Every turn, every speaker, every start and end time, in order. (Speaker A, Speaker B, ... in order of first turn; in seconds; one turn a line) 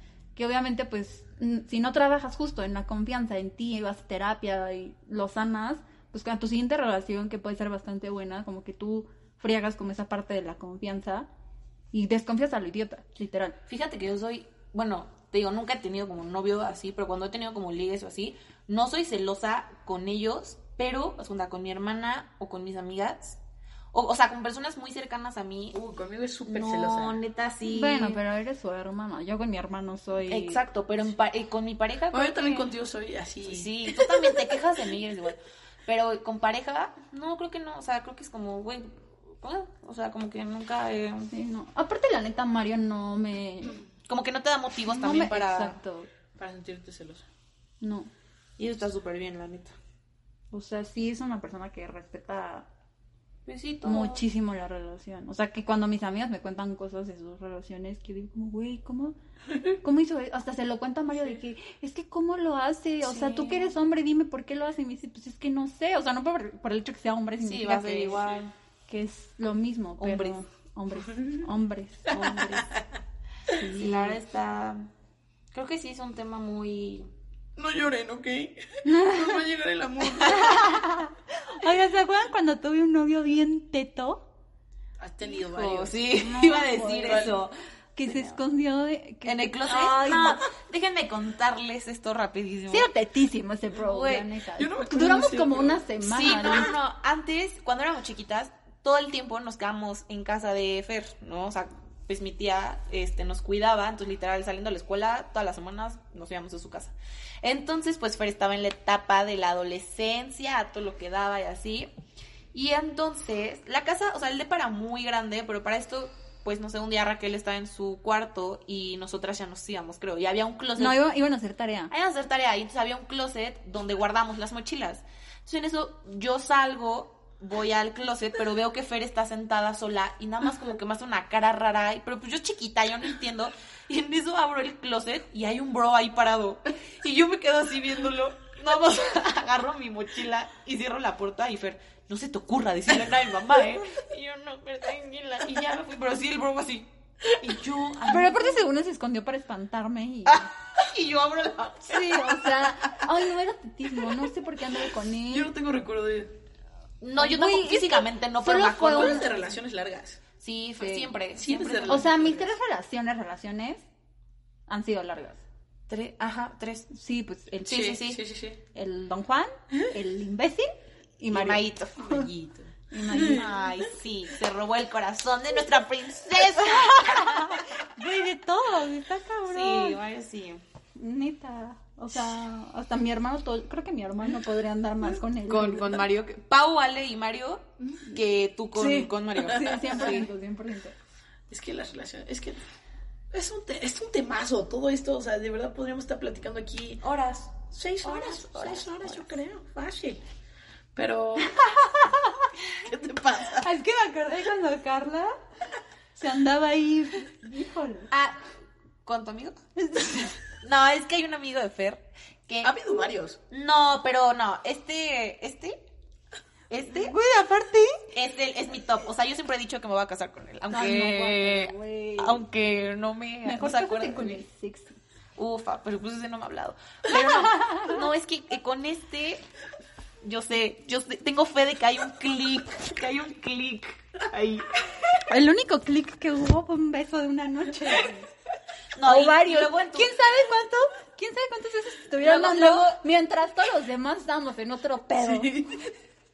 Speaker A: 0.3-11.3
Speaker A: 11.9-13.6
Speaker B: 13.7-23.4
Speaker B: 23.9-25.8
Speaker C: 25.8-27.2
Speaker B: 26.4-28.2
Speaker A: 27.6-30.6
Speaker B: 30.3-32.7
Speaker C: 32.1-34.6
Speaker B: 33.4-41.3
Speaker A: 41.3-43.8
Speaker B: 44.0-45.8
Speaker A: 44.9-46.1
Speaker C: 46.4-47.2
Speaker A: 47.8-48.1
Speaker B: 48.6-49.7
Speaker A: 50.5-52.7
Speaker B: 53.5-54.2
Speaker A: 53.8-59.1
Speaker A: 59.8-68.2
Speaker B: 63.0-63.8
Speaker B: 67.4-68.5
Speaker A: 68.9-72.5
Speaker B: 70.0-70.4
Speaker B: 72.1-72.7
Speaker A: 73.5-74.2
Speaker B: 73.7-74.9
Speaker B: 75.5-77.1
Speaker C: 77.5-80.6
Speaker A: 78.8-79.4
Speaker A: 80.2-84.2
Speaker C: 85.0-86.1
Speaker B: 85.3-87.5
Speaker A: 86.2-87.4
Speaker C: 87.0-87.3
Speaker A: 88.0-90.4
Speaker B: 89.2-92.9
Speaker A: 92.7-96.7
Speaker B: 93.7-94.3
Speaker C: 94.5-95.8
Speaker B: 96.0-111.9
Speaker B: 112.5-121.0
Speaker A: 120.8-121.9
Speaker B: 121.9-148.7
Speaker A: 148.1-150.5
Speaker B: 150.2-152.7
Speaker A: 151.9-155.5
Speaker C: 155.3-156.3
Speaker B: 157.0-159.3
Speaker A: 157.2-159.5
Speaker C: 158.6-160.2
Speaker B: 160.4-162.1
Speaker A: 160.8-161.1
Speaker C: 161.3-162.5
Speaker A: 161.9-163.8
Speaker A: 164.7-165.4
Speaker B: 165.9-166.9
Speaker A: 166.9-167.9
Speaker B: 167.7-168.2
Speaker C: 167.7-168.6
Speaker A: 168.7-172.3
Speaker B: 171.3-172.3
Speaker C: 172.2-173.3
Speaker A: 172.9-173.6
Speaker B: 173.1-177.6
Speaker A: 176.6-180.0
Speaker B: 179.4-180.6
Speaker A: 181.0-186.0
Speaker B: 185.5-190.3
Speaker A: 188.8-190.9
Speaker C: 189.6-190.2
Speaker C: 191.5-192.6
Speaker C: 193.3-197.0
Speaker B: 197.0-199.3
Speaker C: 197.6-200.2
Speaker C: 200.9-201.6
Speaker A: 201.6-202.4
Speaker C: 202.8-203.7
Speaker A: 203.6-205.3
Speaker A: 206.2-208.1
Speaker B: 208.1-208.4
Speaker B: 209.0-209.6
Speaker A: 209.8-210.3
Speaker B: 210.5-212.7
Speaker C: 212.6-213.4
Speaker B: 213.5-215.8
Speaker B: 216.7-217.1
Speaker A: 216.9-218.0
Speaker B: 218.1-224.4
Speaker A: 220.7-222.4
Speaker A: 223.4-225.0
Speaker B: 225.4-229.4
Speaker A: 227.1-228.0
Speaker B: 230.2-234.9
Speaker A: 235.3-238.3
Speaker B: 238.9-240.1
Speaker A: 239.0-245.6
Speaker B: 242.2-243.0